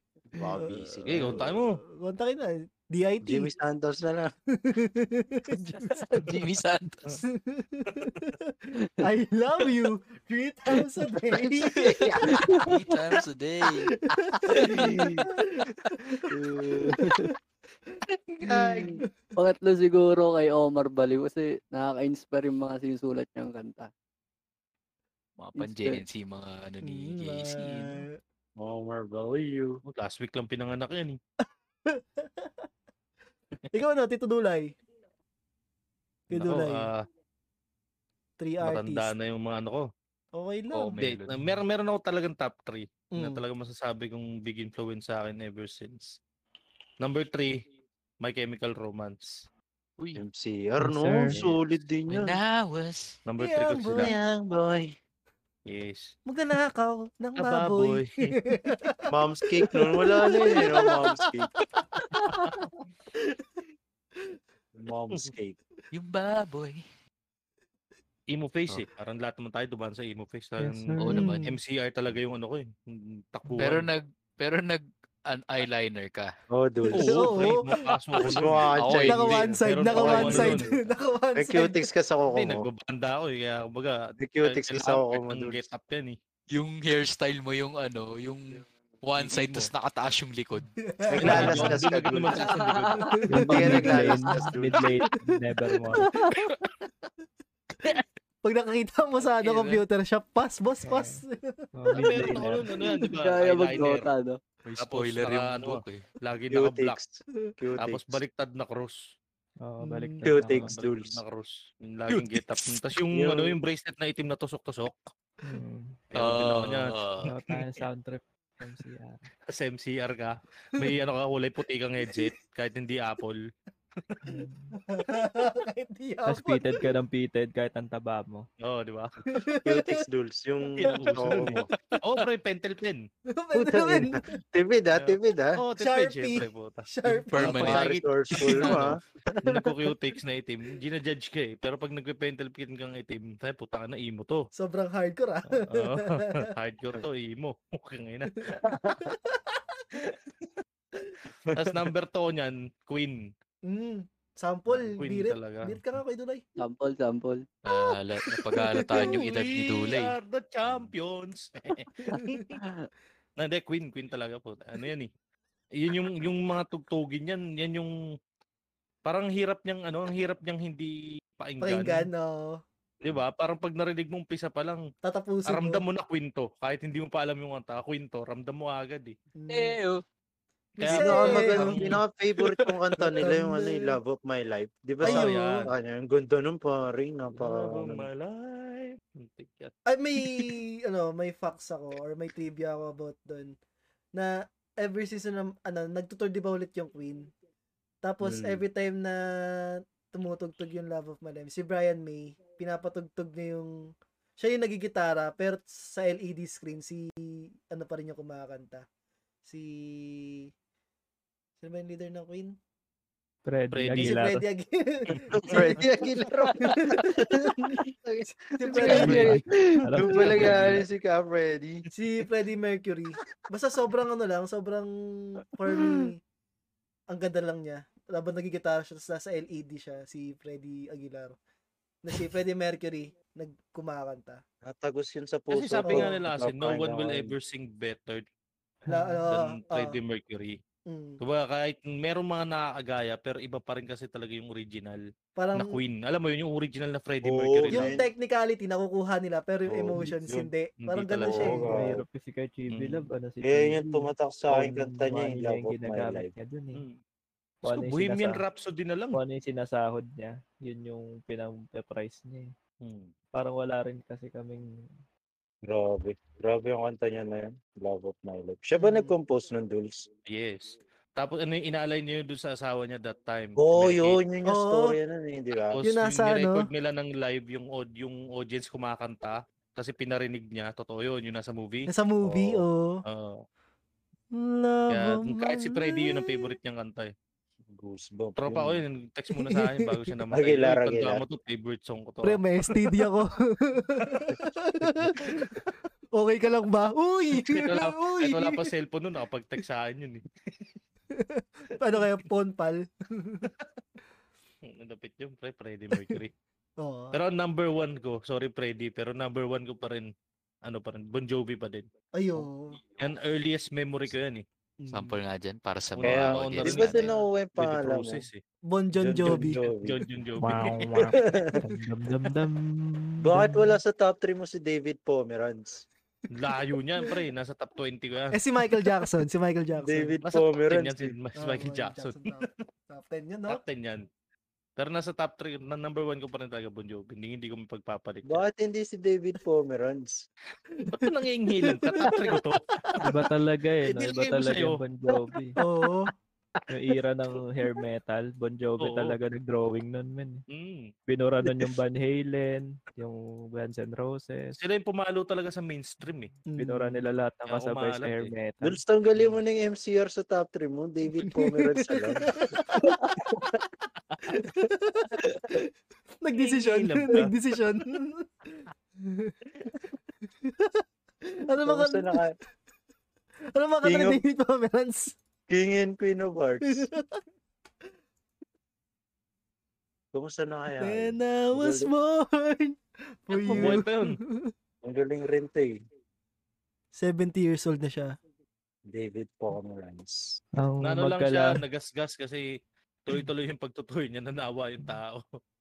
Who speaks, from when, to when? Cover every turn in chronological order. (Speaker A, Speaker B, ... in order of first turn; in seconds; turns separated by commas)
Speaker A: 0.3-1.5, Speaker B: 0.5-3.5, Speaker C: 1.1-1.8, Speaker A: 3.2-4.3, Speaker B: 4.5-6.4, Speaker D: 6.1-7.2, Speaker B: 7.3-12.3, Speaker A: 11.9-12.3, Speaker D: 12.0-14.0, Speaker E: 12.3-12.7, Speaker B: 14.0-17.3, Speaker E: 14.5-15.2, Speaker D: 14.6-15.1, Speaker E: 16.3-17.3, Speaker B: 18.4-19.1, Speaker A: 18.4-19.0, Speaker E: 19.4-23.9, Speaker D: 25.4-28.1, Speaker E: 25.6-26.0, Speaker B: 26.8-28.1, Speaker A: 28.6-29.8, Speaker C: 29.9-31.2, Speaker B: 31.9-32.7, Speaker B: 33.7-34.8, Speaker B: 36.3-36.9, Speaker C: 36.3-37.0, Speaker B: 38.4-39.1, Speaker C: 38.6-39.9, Speaker B: 40.4-41.0, Speaker D: 40.7-41.6, Speaker C: 41.0-46.2, Speaker B: 43.1-43.4, Speaker C: 47.0-47.6, Speaker C: 48.2-49.4, Speaker A: 50.2-52.4, Speaker F: 50.8-51.4, Speaker D: 52.1-53.2, Speaker C: 53.2-54.1, Speaker B: 53.4-54.1, Speaker A: 54.0-54.9, Speaker C: 55.7-56.1, Speaker B: 56.3-59.1, Speaker C: 57.4-58.3, Speaker A: 59.1-61.5, Speaker B: 59.6-62.7, Speaker A: 64.8-65.6, Speaker D: 65.9-66.8, Speaker C: 68.3-73.9, Speaker F: 70.6-71.2, Speaker D: 71.0-71.4, Speaker B: 71.1-71.5, Speaker D: 73.6-76.3, Speaker A: 76.5-77.5, Speaker B: 76.9-77.9, Speaker C: 76.9-80.7, Speaker A: 78.2-79.4, Speaker D: 78.8-79.6, Speaker B: 79.0-81.9, Speaker A: 79.9-80.7, Speaker A: 81.4-82.7, Speaker C: 82.3-86.2, Speaker A: 84.2-85.6, Speaker D: 86.5-90.7, Speaker C: 89.2-89.7, Speaker B: 90.8-91.8, Speaker A: 91.1-92.5, Speaker C: 91.2-93.2, Speaker E: 92.5-93.8, Speaker B: 93.1-94.0, Speaker F: 93.3-96.2, Speaker A: 93.5-95.0, Speaker B: 98.4-102.4, Speaker D: 99.3-99.8, Speaker F: 100.8-101.2, Speaker F: 101.8-102.7, Speaker C: 101.9-104.1, Speaker E: 103.2-104.4, Speaker D: 104.7-106.1, Speaker C: 104.8-107.0, Speaker A: 106.5-108.2, Speaker C: 107.8-109.0, Speaker F: 109.6-110.7, Speaker B: 109.8-110.3, Speaker A: 110.2-111.2, Speaker C: 110.6-115.1, Speaker D: 112.1-112.8, Speaker A: 113.1-113.6, Speaker F: 115.4-116.0, Speaker C: 116.1-117.5, Speaker D: 116.2-117.3, Speaker F: 117.2-119.2, Speaker C: 119.5-123.4, Speaker F: 124.3-124.8, Speaker B: 124.3-126.8, Speaker F: 126.3-128.5, Speaker C: 128.6-129.1, Speaker B: 129.3-130.0, Speaker A: 129.6-131.7, Speaker C: 130.8-133.0, Speaker B: 130.8-131.2, Speaker D: 131.8-132.0, Speaker B: 133.3-134.3, Speaker A: 133.5-135.6, Speaker C: 134.9-144.4, Speaker B: 135.8-137.7, Speaker D: 137.3-138.8, Speaker A: 137.6-139.0, Speaker B: 139.3-139.8, Speaker B: 144.5-146.5, Speaker C: 145.7-148.6, Speaker B: 148.4-150.0, Speaker A: 148.6-149.1, Speaker C: 151.6-153.3, Speaker B: 153.7-156.4, Speaker C: 154.7-155.8, Speaker E: 156.6-157.4, Speaker D: 157.7-160.1, Speaker C: 159.0-162.6, Speaker C: 163.4-165.1, Speaker C: 165.8-167.9, Speaker C: 169.1-172.1, Speaker B: 171.6-172.6, Speaker C: 173.0-174.8, Speaker B: 175.0-175.8, Speaker C: 175.5-179.1, Speaker B: 179.4-179.8, Speaker D: 179.5-180.0, Speaker C: 180.8-182.0, Speaker B: 180.8-181.8, Speaker A: 180.8-188.1, Speaker B: 183.2-184.0, Speaker C: 185.0-185.7, Speaker B: 185.1-185.7, Speaker C: 187.3-189.7, Speaker B: 189.9-193.6, Speaker B: 194.2-197.3, Speaker B: 198.0-208.8, Speaker C: 198.3-198.6, Speaker B: 209.4-210.5, Speaker B: 211.6-212.6, Speaker F: 213.5-214.5, Speaker C: 213.7-214.2, Speaker B: 214.0-219.4, Speaker C: 215.1-215.6, Speaker A: 215.3-221.9, Speaker E: 218.8-220.1, Speaker F: 218.9-220.8, Speaker C: 220.5-220.8, Speaker B: 221.9-226.2, Speaker B: 227.1-231.4, Speaker B: 232.0-234.4, Speaker A: 234.6-237.3, Speaker C: 235.5-238.2, Speaker B: 235.8-236.1, Speaker F: 238.8-239.2, Speaker B: 238.9-240.0, Speaker C: 239.3-240.6, Speaker B: 240.9-241.2, Speaker C: 241.2-245.0, Speaker B: 245.4-245.8, Speaker C: 245.5-248.0, Speaker A: 247.2-248.1, Speaker B: 247.7-251.8, Speaker A: 249.7-250.5, Speaker C: 250.8-251.6, Speaker A: 251.2-252.0, Speaker F: 251.6-256.8, Speaker C: 252.7-253.1, Speaker A: 253.4-256.3, Speaker F: 257.6-258.4, Speaker C: 257.6-259.2, Speaker F: 259.1-262.5, Speaker C: 262.8-263.1, Speaker F: 263.3-264.7, Speaker A: 265.7-270.1, Speaker B: 268.8-269.1, Speaker C: 270.3-274.2, Speaker A: 273.6-275.8, Speaker B: 274.4-275.0, Speaker C: 275.7-281.9, Speaker B: 275.8-276.7, Speaker B: 281.9-283.0, Speaker A: 282.2-282.5, Speaker C: 283.1-283.4, Speaker B: 284.3-286.6, Speaker C: 284.9-287.1, Speaker A: 287.7-288.8, Speaker C: 288.4-292.9, Speaker B: 289.3-290.1, Speaker A: 290.3-291.2, Speaker B: 292.2-298.7, Speaker C: 297.4-300.2, Speaker B: 301.1-303.5, Speaker C: 304.7-306.3, Speaker B: 306.8-307.2, Speaker C: 307.1-310.1, Speaker C: 310.7-311.9, Speaker B: 312.1-312.8, Speaker C: 313.0-314.4, Speaker B: 314.8-315.2, Speaker D: 314.9-317.0, Speaker C: 316.0-318.4, Speaker A: 316.0-318.3, Speaker B: 318.7-319.6, Speaker A: 318.9-320.0, Speaker C: 319.6-321.0, Speaker F: 320.4-323.7, Speaker A: 320.9-321.5, Speaker A: 323.2-325.9, Speaker C: 326.3-328.4, Speaker B: 328.3-330.1, Speaker A: 329.8-331.1, Speaker C: 330.2-332.5, Speaker B: 331.4-333.6, Speaker C: 333.5-334.1, Speaker C: 334.8-338.4, Speaker A: 338.3-340.2, Speaker B: 340.8-343.2, Speaker C: 340.9-343.2, Speaker F: 343.0-345.6, Speaker C: 343.8-344.8, Speaker B: 345.6-346.1, Speaker F: 346.7-350.4, Speaker C: 348.8-349.2, Speaker C: 350.5-350.9, Speaker F: 351.1-354.5, Speaker C: 354.5-356.4, Speaker B: 356.5-357.1, Speaker F: 356.5-358.8, Speaker C: 357.5-358.3, Speaker A: 358.6-363.4, Speaker B: 361.2-363.6, Speaker B: 364.3-365.7, Speaker B: 366.2-369.4, Speaker C: 366.4-367.3, Speaker B: 370.4-372.2, Speaker A: 371.6-372.4, Speaker B: 373.6-375.2, Speaker A: 373.8-374.2, Speaker A: 375.5-376.9, Speaker B: 376.7-377.2, Speaker A: 380.1-381.9, Speaker B: 380.8-384.5, Speaker C: 383.5-384.2, Speaker A: 383.5-383.8, Speaker A: 384.8-385.8, Speaker B: 386.9-388.1, Speaker A: 388.9-390.4, Speaker F: 390.6-391.6, Speaker C: 390.8-392.4, Speaker C: 393.1-395.2